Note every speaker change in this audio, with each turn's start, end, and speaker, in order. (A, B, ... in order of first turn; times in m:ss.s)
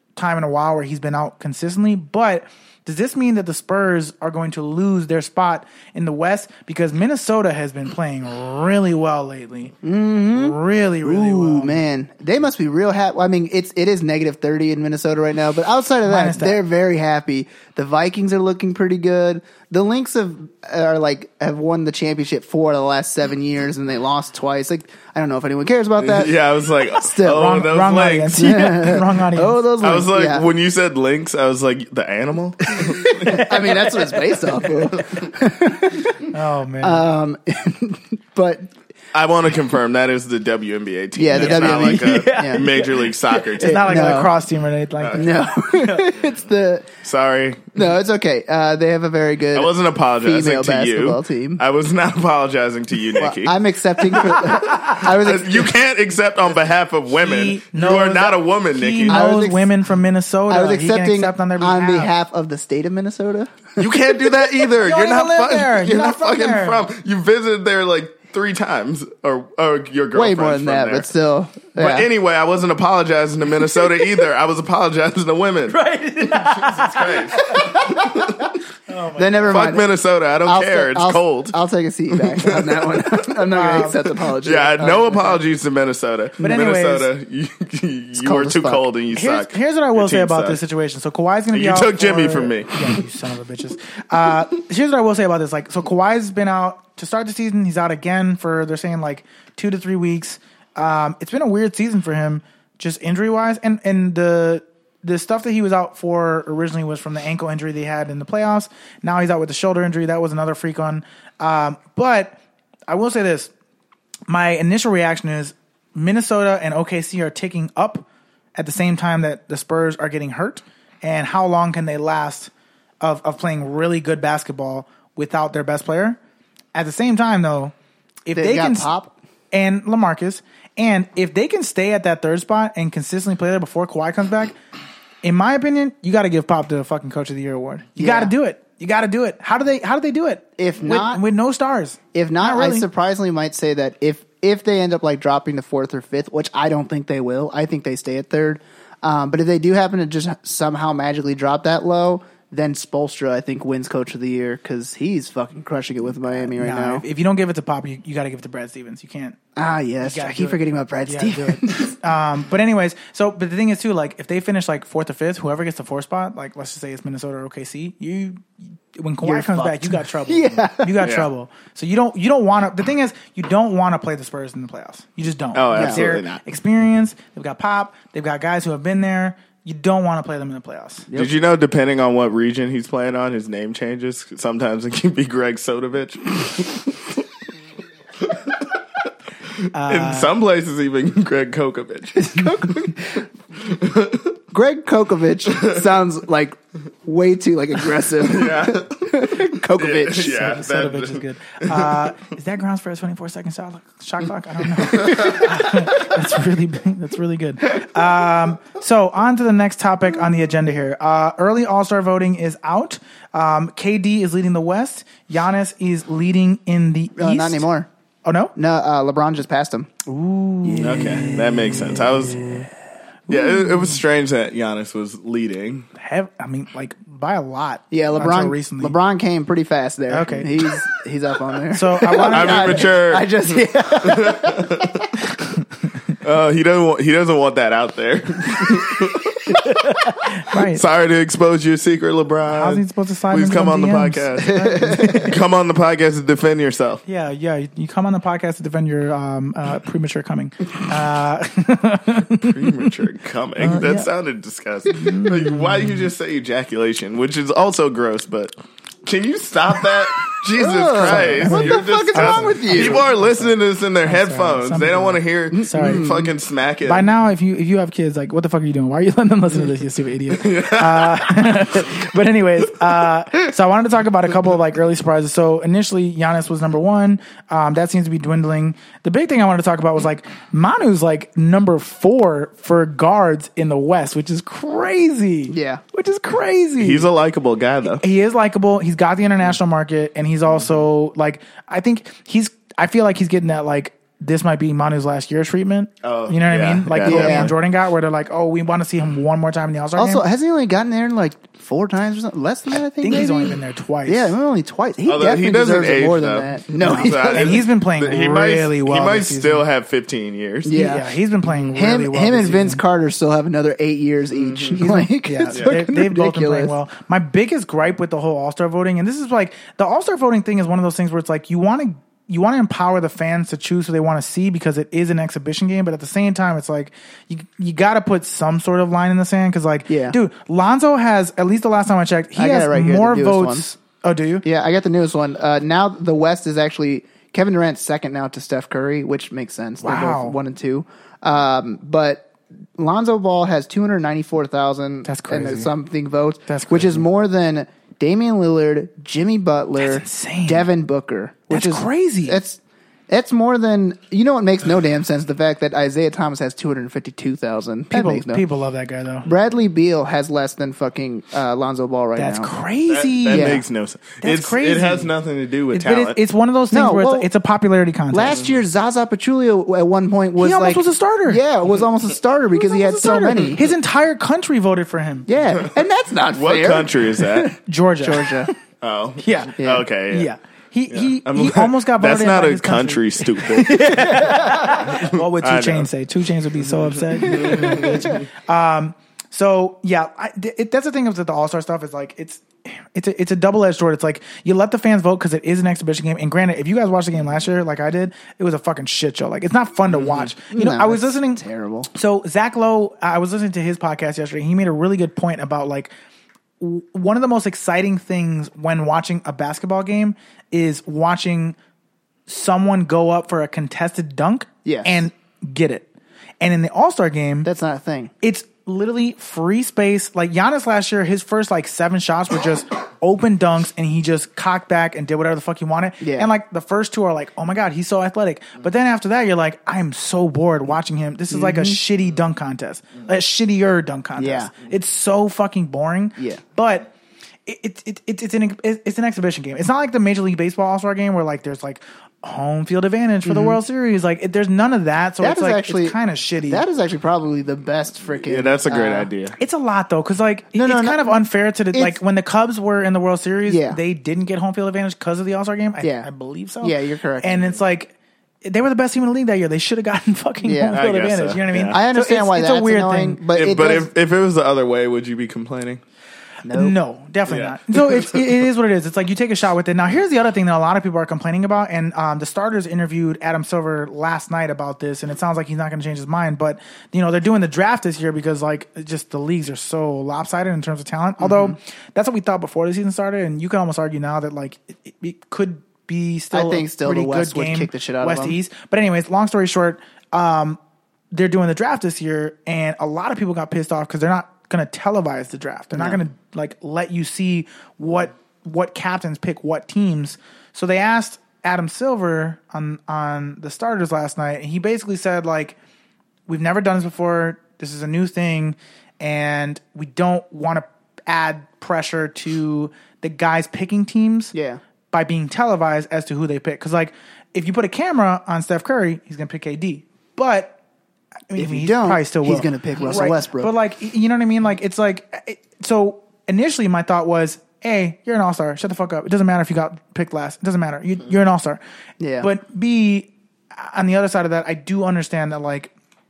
0:00.2-0:09.8 A
0:09.8-0:26.4 B
0:10.3-0:11.8 A
0:16.0-0:16.6 A
0:26.0-0:28.5 C
0:27.0-0:27.5 B
0:27.2-0:29.6 A
0:28.3-0:30.5 B
0:29.8-0:33.4 C
0:32.8-0:36.3 B
0:33.3-0:34.9 A
0:36.3-0:37.1 A
0:36.8-0:38.7 B
0:39.1-0:44.3 C
0:41.2-0:42.7 B
0:41.3-0:46.1 A
0:43.6-0:44.4 B
0:45.0-0:45.3 C
0:45.1-0:46.9 B
0:47.0-0:47.8 C
0:47.8-0:51.6 B
0:49.5-0:53.6 C
0:53.2-0:55.7 B
0:54.1-0:59.2 C
0:57.1-1:02.1 A
0:59.1-0:59.7 B
1:00.5-1:03.6 B
1:03.8-1:11.1 C
1:04.8-1:06.8 A
1:10.1-1:12.1 B
1:11.8-1:18.5 C
1:15.7-1:18.0 A
1:17.8-1:18.3 B
1:18.9-1:19.7 A
1:19.2-1:19.9 B
1:19.5-1:21.6 C
1:20.4-1:25.4 B
1:22.1-1:23.2 C
1:23.5-1:24.0 A
1:24.4-1:30.6 C
1:26.4-1:27.1 A
1:28.2-1:28.8 B
1:29.1-1:52.4 A
1:31.5-1:33.0 C
1:52.9-1:53.5 A
1:54.3-2:06.2 A
2:06.8-2:07.7 A
2:08.3-2:08.9 A
2:08.3-2:09.1 B
2:09.5-2:14.6 A
2:15.2-2:22.9 A
2:18.0-2:18.3 B
2:20.6-2:21.2 B
2:22.1-2:37.0 B
2:36.5-2:39.4 A
2:39.6-2:42.0 B
2:40.0-3:01.1 A
2:49.2-2:51.0 B
2:51.0-2:51.3 C
2:55.5-2:56.4 C
2:55.7-2:56.1 B
3:01.1-3:07.2 C
3:08.2-3:08.7 C
3:09.6-3:12.9 C
3:09.7-3:10.3 A
3:12.4-3:13.2 B
3:13.6-3:14.4 C
3:14.5-3:20.5 B
3:18.2-3:22.0 C
3:20.2-3:37.7 A
3:25.0-3:25.5 C
3:37.2-3:37.9 B
3:38.2-3:38.5 A
3:38.6-3:40.0 B
3:40.1-3:42.0 A
3:40.6-3:41.4 B
3:40.8-3:42.7 C
3:43.3-3:45.9 C
3:43.3-3:44.0 A
3:46.0-3:49.0 A
3:47.9-3:55.1 B
3:50.1-3:50.8 A
3:51.7-3:52.9 A
3:52.2-3:55.1 C
3:56.2-3:59.6 C
3:59.6-4:00.8 A
4:00.5-4:07.0 C
4:02.5-4:05.4 A
4:04.5-4:05.2 B
4:07.1-4:12.9 A
4:12.4-4:18.5 C
4:13.6-4:14.1 A
4:14.9-4:16.0 A
4:19.1-4:27.1 C
4:20.6-4:23.0 B
4:21.0-4:26.2 A
4:25.5-4:26.3 B
4:26.8-4:47.1 A
4:30.4-4:31.4 C
4:45.5-4:45.8 B
4:46.8-4:48.0 C
4:48.0-5:00.2 A
4:56.0-4:57.5 C
4:57.0-4:57.5 B
5:00.0-5:07.6 B
5:03.0-5:04.4 A
5:05.1-5:10.8 C
5:06.8-5:09.6 A
5:10.6-5:11.1 B
5:10.7-5:12.8 A
5:11.7-5:16.7 B
5:14.4-5:14.8 C
5:14.8-5:34.4 A
5:29.9-5:30.2 B
5:32.4-5:33.6 B
5:34.4-5:58.4 B
5:39.8-5:40.4 A
5:45.1-5:45.7 A
5:46.5-5:47.0 A
5:49.8-5:50.7 A
5:51.5-5:52.4 A
5:57.9-5:59.3 A
5:59.2-6:02.5 B
6:02.2-6:03.6 A
6:02.9-6:06.2 C
6:03.3-6:03.6 B
6:04.2-6:05.1 A
6:05.7-6:08.4 A
6:06.7-6:07.3 B
6:08.1-6:13.7 B
6:10.4-6:11.4 A
6:12.5-6:15.3 A
6:15.3-6:18.5 B
6:16.3-6:17.6 C
6:17.7-6:18.6 A
6:18.8-6:20.3 C
6:19.2-6:45.9 A
6:19.6-6:19.8 B
6:20.9-6:25.9 C
6:27.1-6:28.2 C
6:27.2-6:28.2 B
6:40.5-6:41.9 B
6:46.6-6:51.6 A
6:52.3-6:55.9 A
6:54.6-6:55.0 B
6:56.4-6:57.5 A
6:57.4-6:58.1 B
6:58.2-7:16.9 A
7:06.0-7:06.3 B
7:11.3-7:11.8 B
7:14.2-7:14.5 B
7:17.5-7:26.6 A
7:23.2-7:23.6 B
7:25.2-7:26.0 B
7:26.5-7:29.1 B
7:28.3-7:29.4 C
7:29.4-7:37.9 A
7:30.6-7:31.2 B
7:31.7-7:32.0 B
7:33.4-7:33.8 B
7:35.8-7:36.1 B
7:36.6-7:37.6 B
7:38.4-7:43.2 A
7:40.4-7:40.8 B
7:40.7-7:41.8 C
7:41.7-7:43.9 B
7:43.3-7:45.8 C
7:46.4-7:46.8 B
7:46.5-8:10.6 A
7:47.3-7:48.2 C
8:01.2-8:01.6 B
8:06.3-8:08.4 B
8:11.1-8:25.6 A
8:15.7-8:16.0 B
8:26.3-8:34.3 A
8:34.3-8:34.6 B
8:34.9-8:40.6 A
8:41.3-8:51.6 A
8:41.4-8:43.5 B
8:52.0-8:52.3 B
8:52.2-8:55.7 A